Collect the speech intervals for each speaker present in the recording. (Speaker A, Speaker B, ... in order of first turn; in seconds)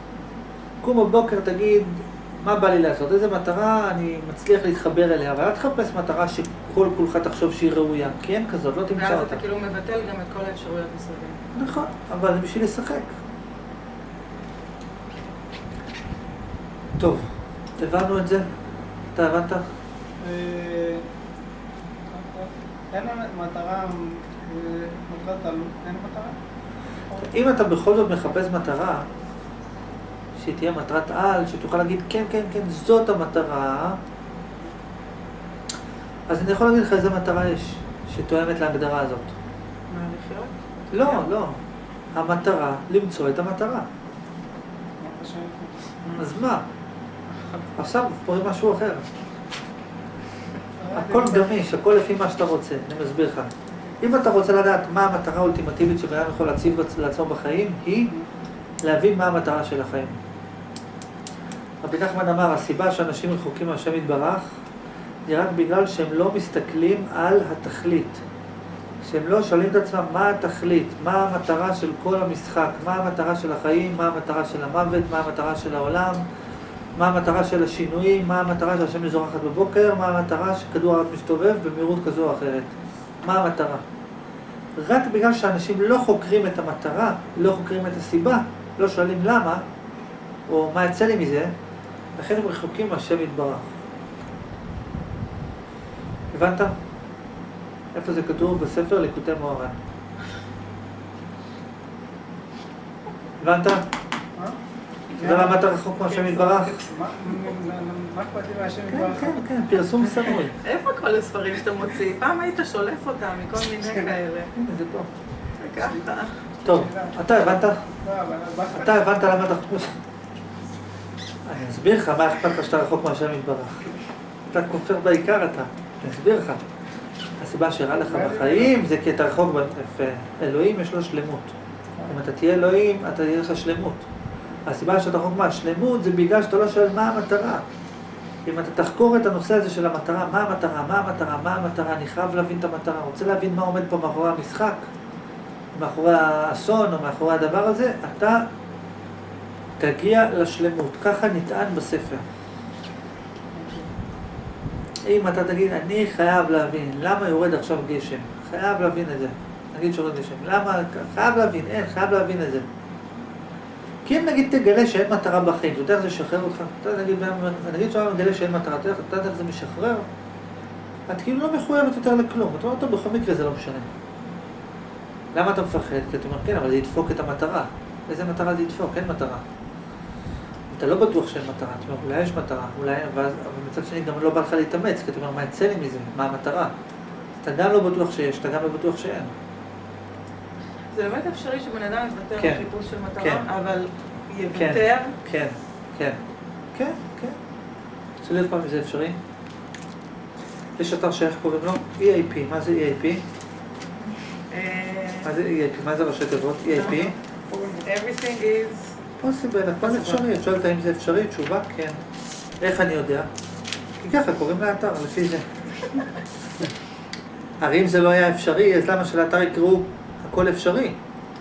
Speaker A: 0.8-9.4, 11.5-13.1, 17.0-18.5, 19.1-19.6, 27.2-29.1, 30.4-34.0, 36.3-39.3, 40.9-41.6, 42.1-43.9, 46.2-46.6, 47.8-49.0, 50.9-53.5, 54.0-58.1, 58.8-60.2, 61.8-64.5, 65.3-68.2, 69.0-76.2, 77.0-83.8, 84.8-89.6, 90.5-91.5, 92.2-93.7, 96.3-96.7, 97.9-99.8, 103.4-103.8, 105.2-106.8, 108.9-110.5, 114.5-115.1, 116.6-117.8, 118.7-119.9, 121.4-123.9, 124.5-126.6, 127.4-134.1, 134.7-137.6, 138.4-144.9, 145.7-148.5, 149.8-152.2, 155.1-162.6, 164.0-170.1, 171.1-173.9, 175.3-179.4, 180.7-186.7, 187.4-189.3, 192.4-192.6, 194.5-196.2, 196.7-197.4, 198.2-199.2, 200.8-203.2, 205.2-207.1, 209.2-212.0, 212.6-213.3, 214.0-215.4, 217.6-221.0
Speaker B: 8.9-11.4, 39.9-41.3, 110.6-114.5, 115.6-116.4, 190.9-195.1, 204.5-205.3, 207.8-208.9, 209.8-210.2
Speaker C: 20.2-21.0, 22.1-26.4, 45.0-46.3, 47.4-47.6, 50.8-51.5, 105.1-109.4, 115.8-116.1, 116.6-119.1, 128.0-128.8, 153.5-153.9, 206.8-207.8